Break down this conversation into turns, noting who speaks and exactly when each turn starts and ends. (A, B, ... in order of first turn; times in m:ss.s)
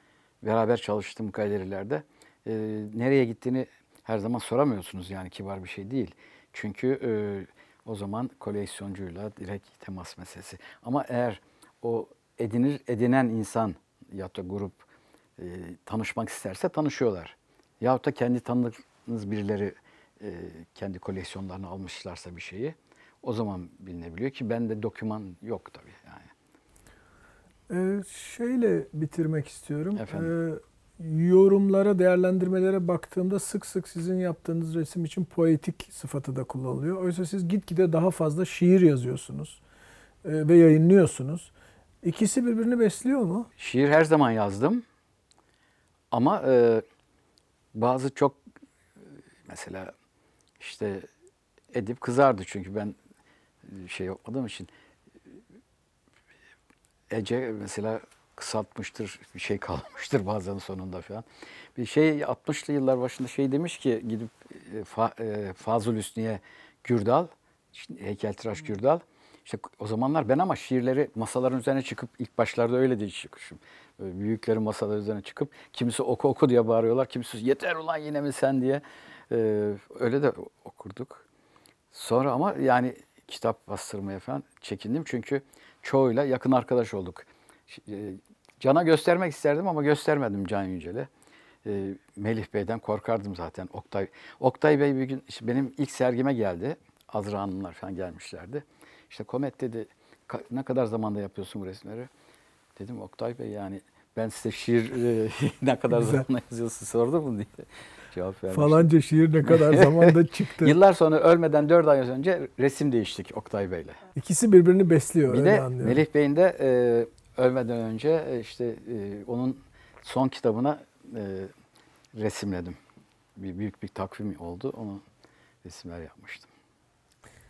0:00.4-0:14.8 A
0:15.4-0:26.3 A
0:27.7-0:39.6 B
0:30.0-0:30.3 A
0:40.2-0:41.5 B
0:42.0-0:43.5 B
0:43.6-0:44.8 A
0:46.1-0:46.8 A
0:47.7-0:48.4 A
0:49.4-0:49.9 A
0:50.6-0:51.0 A
0:51.7-0:52.9 A
0:53.6-0:54.7 A
0:57.1-1:01.2 A
1:01.8-1:21.2 A
1:21.9-1:31.1 A
1:31.6-1:42.1 A
1:42.8-1:48.9 A
1:45.9-1:46.2 B
1:48.5-1:50.8 B
1:49.4-1:54.0 A
1:54.2-1:56.0 B
1:55.3-2:01.5 A
2:02.1-2:02.8 A
2:03.4-2:05.0 A
2:05.6-2:06.5 A